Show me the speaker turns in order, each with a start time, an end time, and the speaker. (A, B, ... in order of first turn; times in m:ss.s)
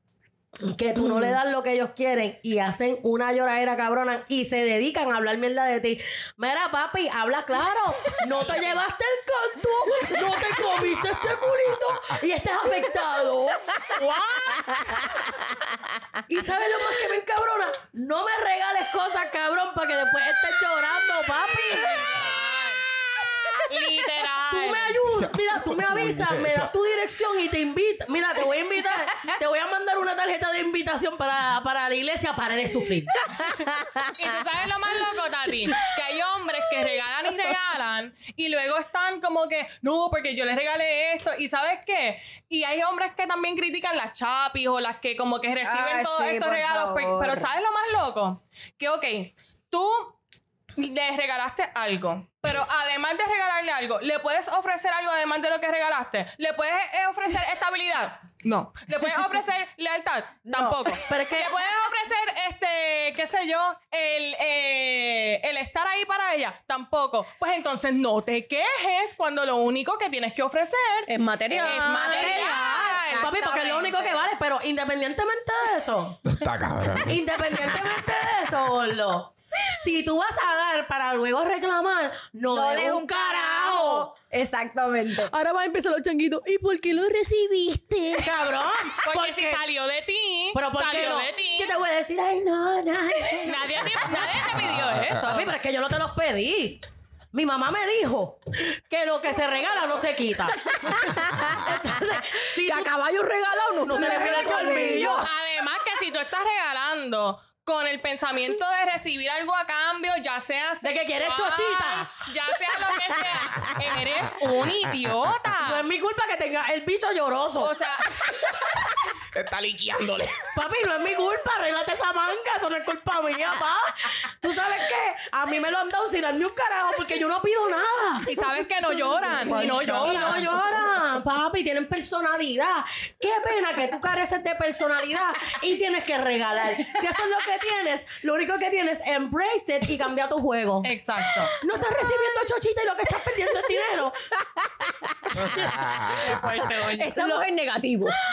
0:00.6-0:14.4 A
0:13.9-0:15.5 B
0:16.3-0:22.3 A
0:21.7-0:22.8 C
0:23.7-0:25.0 C
0:24.5-0:33.2 A
0:25.3-0:26.7 D
0:33.4-0:34.1 B
0:34.1-0:50.1 C
0:45.6-0:47.5 E
0:50.8-1:14.2 C
1:00.5-1:01.0 E
1:01.0-1:01.5 A
1:11.1-1:12.5 B
1:11.6-1:16.2 A
1:12.2-1:14.1 E
1:16.2-1:17.2 D
1:17.0-1:24.1 A
1:22.5-1:25.3 E
1:25.3-1:28.7 B
1:28.1-1:29.6 A
1:29.0-1:31.8 C
1:30.5-1:34.5 A
1:33.4-1:35.5 C
1:34.5-1:35.0 D
1:35.2-1:36.8 A
1:37.3-1:42.9 A
1:40.6-1:45.3 B
1:43.8-1:45.3 A
1:44.3-1:55.8 C
1:50.8-1:52.1 A
1:55.6-1:57.7 A
1:57.6-1:58.1 C
1:59.3-2:00.5 D
2:00.5-2:08.5 A
2:08.2-2:10.5 C
2:09.2-2:20.9 A
2:09.5-2:10.6 B
2:20.8-2:21.5 C
2:21.5-2:24.2 A
2:24.4-2:25.8 B
2:25.4-2:26.5 D
2:25.4-2:27.4 A
2:26.2-2:27.1 C
2:26.3-2:28.2 B